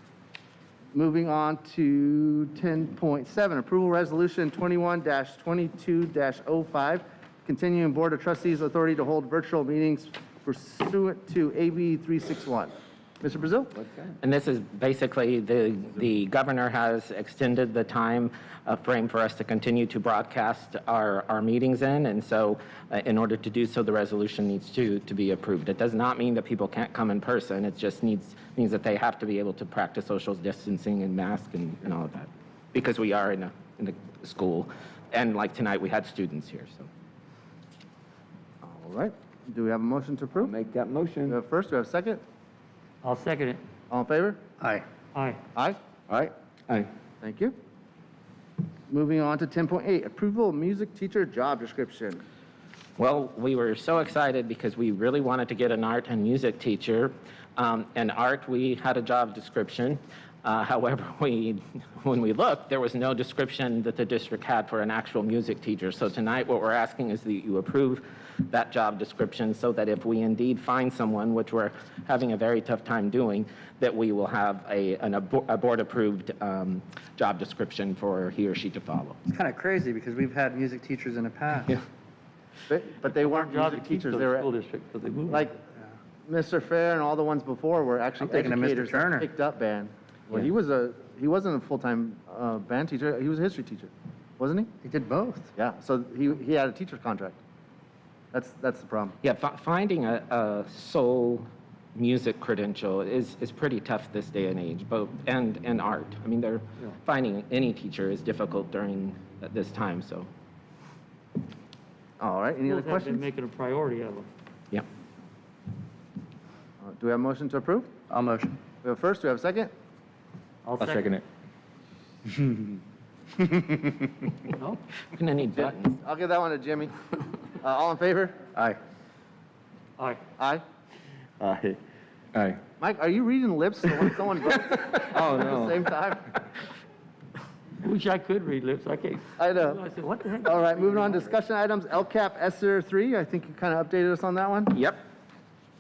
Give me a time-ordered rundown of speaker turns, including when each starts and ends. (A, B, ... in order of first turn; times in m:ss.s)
0:00.9-0:13.8 A
0:14.2-0:36.9 B
0:38.6-0:40.5 A
0:40.4-0:41.4 C
0:41.3-0:42.2 A
0:43.0-0:43.6 D
0:43.9-0:44.4 A
0:44.6-0:44.8 E
0:45.2-0:45.4 D
0:46.1-0:46.8 C
0:47.2-0:47.6 A
0:48.9-0:52.2 A
0:53.0-1:19.2 B
1:19.3-1:21.8 E
1:22.7-1:24.5 A
1:23.1-1:25.5 D
1:25.3-1:25.6 A
1:26.3-1:34.7 A
1:28.2-1:29.3 E
1:34.8-1:35.5 E
1:35.6-1:37.4 A
1:38.3-1:39.2 A
1:39.2-1:50.3 B
1:52.2-1:53.2 A
1:52.7-1:54.3 D
1:56.8-1:57.9 A
1:58.1-1:58.6 E
1:58.8-1:59.7 A
2:00.6-2:01.2 D
2:00.8-2:01.2 C
2:04.6-2:04.8 D
2:05.1-2:05.9 B
2:05.6-2:06.9 A
2:07.6-2:08.4 A
2:11.4-2:11.8 C
2:12.4-2:12.6 C
2:12.8-2:16.3 A
2:14.8-2:15.8 C
2:17.8-2:21.3 D
2:19.4-2:19.8 A
2:20.4-2:24.8 A
2:24.7-2:25.0 B